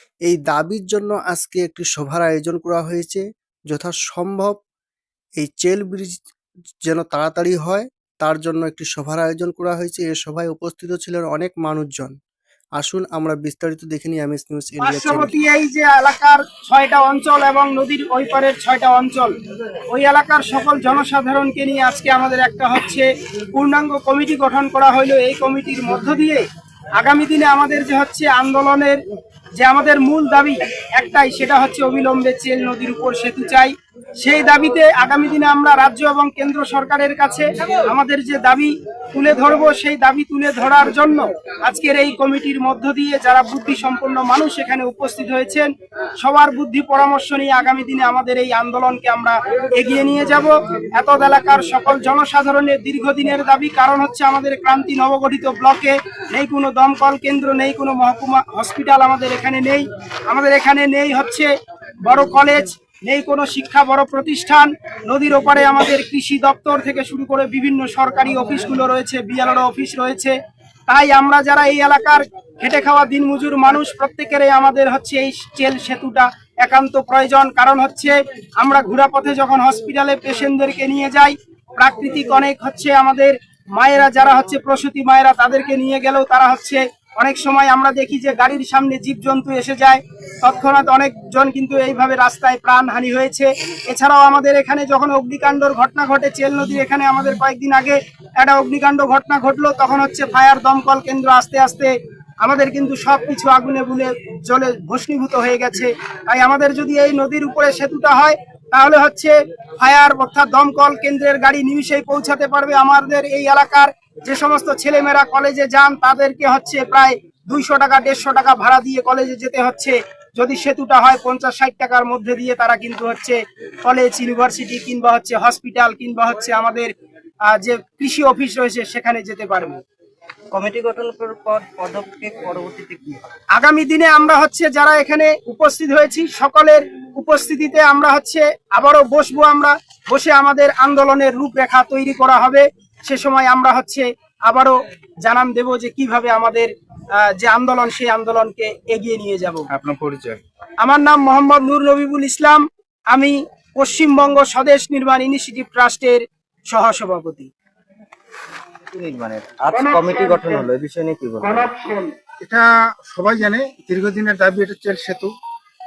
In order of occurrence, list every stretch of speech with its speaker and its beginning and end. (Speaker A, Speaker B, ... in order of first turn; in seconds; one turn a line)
Speaker A: 0.3-4.5
Speaker A: 5.4-6.1
Speaker A: 6.9-12.1
Speaker A: 12.8-15.4
Speaker B: 14.8-19.3
Speaker B: 19.9-26.4
Speaker B: 27.0-29.0
Speaker B: 29.6-45.7
Speaker B: 46.2-61.5
Speaker B: 62.0-70.3
Speaker B: 70.9-126.9
Speaker B: 127.5-129.8
Speaker C: 130.5-133.3
Speaker B: 133.5-149.7
Speaker C: 149.7-150.4
Speaker B: 150.8-157.5
Speaker C: 158.9-161.8
Speaker D: 162.4-165.3